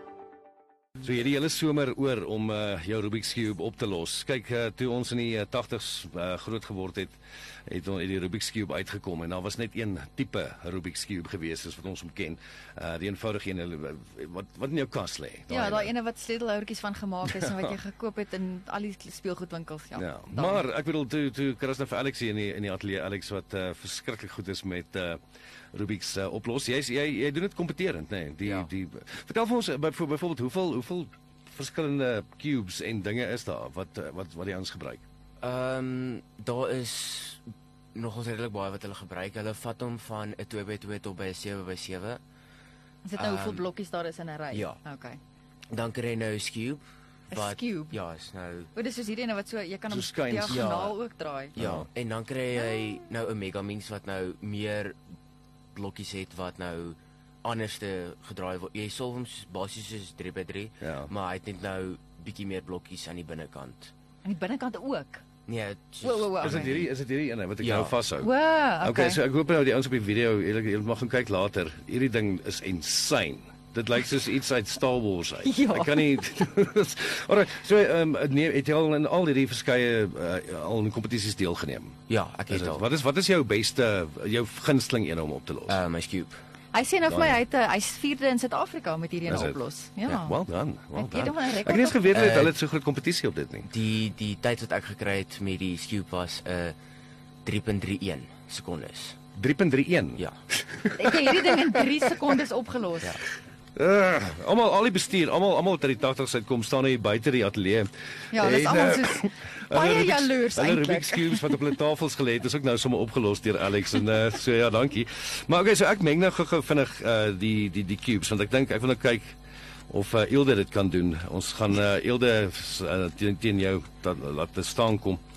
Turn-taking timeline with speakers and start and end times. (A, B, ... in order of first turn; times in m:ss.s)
0:01.0-0:07.2 A
0:07.7-0:15.9 A
0:15.5-0:20.6 B
0:17.2-0:17.8 A
0:20.0-0:25.2 A
0:25.7-0:35.0 A
0:28.4-0:28.7 C
0:35.4-0:37.4 C
0:37.9-0:42.2 C
0:43.0-0:45.2 B
0:43.2-0:43.6 C
0:44.5-0:44.8 C
0:45.7-0:48.7 C
0:47.3-0:48.0 B
0:48.7-0:51.5 B
0:49.9-0:50.7 A
0:50.5-0:50.9 C
0:51.5-0:51.8 A
0:51.6-0:55.0 C
0:55.7-1:03.9 C
1:00.8-1:01.1 A
1:04.2-1:05.2 B
1:05.4-1:06.9 C
1:06.0-1:06.7 B
1:06.4-1:08.3 A
1:07.6-1:08.0 C
1:08.2-1:09.2 B
1:08.8-1:21.9 A
1:15.4-1:16.1 B
1:22.1-1:22.8 C
1:22.5-1:25.8 A
1:25.7-1:26.4 C
1:26.7-1:30.4 B
1:27.1-1:27.4 A
1:29.3-1:33.7 A
1:30.9-1:32.2 B
1:32.1-1:32.5 C
1:33.7-1:36.8 C
1:37.4-1:39.2 C
1:39.4-1:41.9 A
1:40.9-1:43.2 B
1:43.8-1:59.3 A
1:48.3-1:51.6 B
1:59.9-2:05.2 A